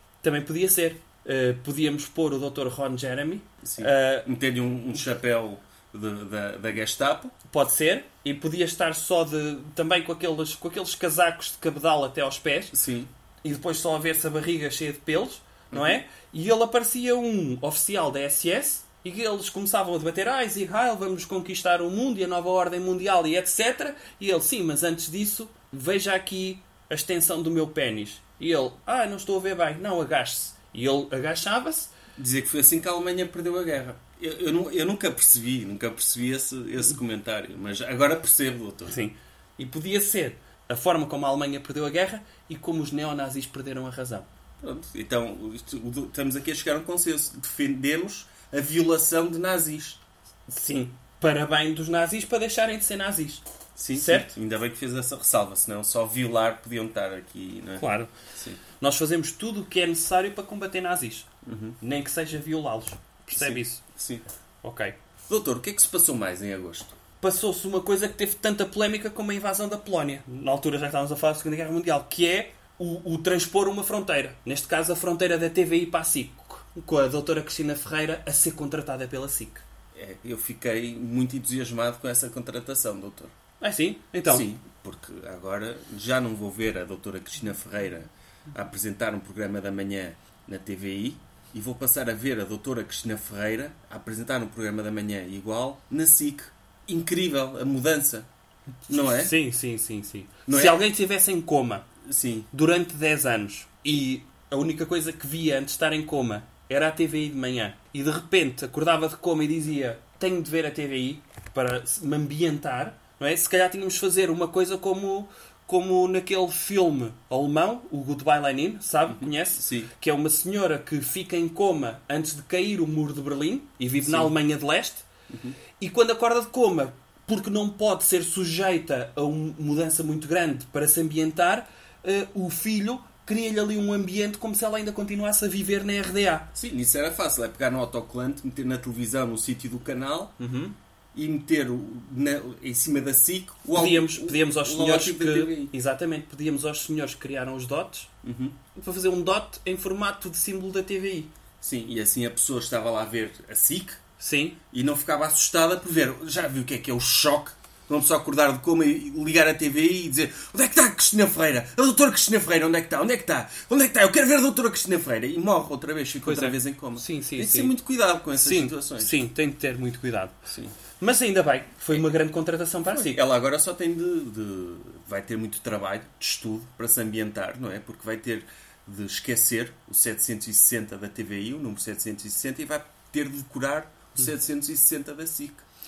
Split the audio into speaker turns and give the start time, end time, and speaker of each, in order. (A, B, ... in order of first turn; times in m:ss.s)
0:00.2-0:04.3 A
0:03.6-0:07.3 B
0:07.5-0:12.8 A
0:12.7-0:13.1 B
0:13.4-0:31.9 A
0:15.7-0:16.0 B
0:32.2-0:39.0 B
0:38.9-0:44.3 A
0:44.6-0:50.0 B
0:50.5-0:54.3 A
0:53.8-0:58.6 B
0:57.8-0:58.1 A
0:58.8-1:01.3 A
1:01.4-1:01.8 B
1:01.8-1:03.8 A
1:03.3-1:04.2 B
1:04.6-1:05.0 A
1:05.3-1:07.0 B
1:07.2-1:19.6 A
1:19.9-1:23.3 B
1:23.6-1:24.5 A
1:24.3-1:38.3 B
1:38.9-1:39.4 B
1:38.9-1:41.9 A
1:40.5-1:40.8 B
1:42.0-1:42.5 B
1:42.5-2:05.1 A
1:59.1-1:59.9 B
2:04.0-2:04.3 B
2:05.3-2:05.6 B
2:05.8-2:16.5 A
2:16.6-2:20.4 B
2:20.4-2:20.8 A
2:21.1-2:25.7 B
2:23.7-2:28.1 A
2:28.2-2:28.6 B
2:28.8-2:31.3 A
2:31.6-2:34.0 B
2:34.2-2:34.6 A
2:34.7-2:49.3 B
2:46.2-2:47.7 A
2:48.3-2:50.4 A
2:50.5-2:50.8 B
2:51.0-2:53.2 A
2:52.9-3:05.6 B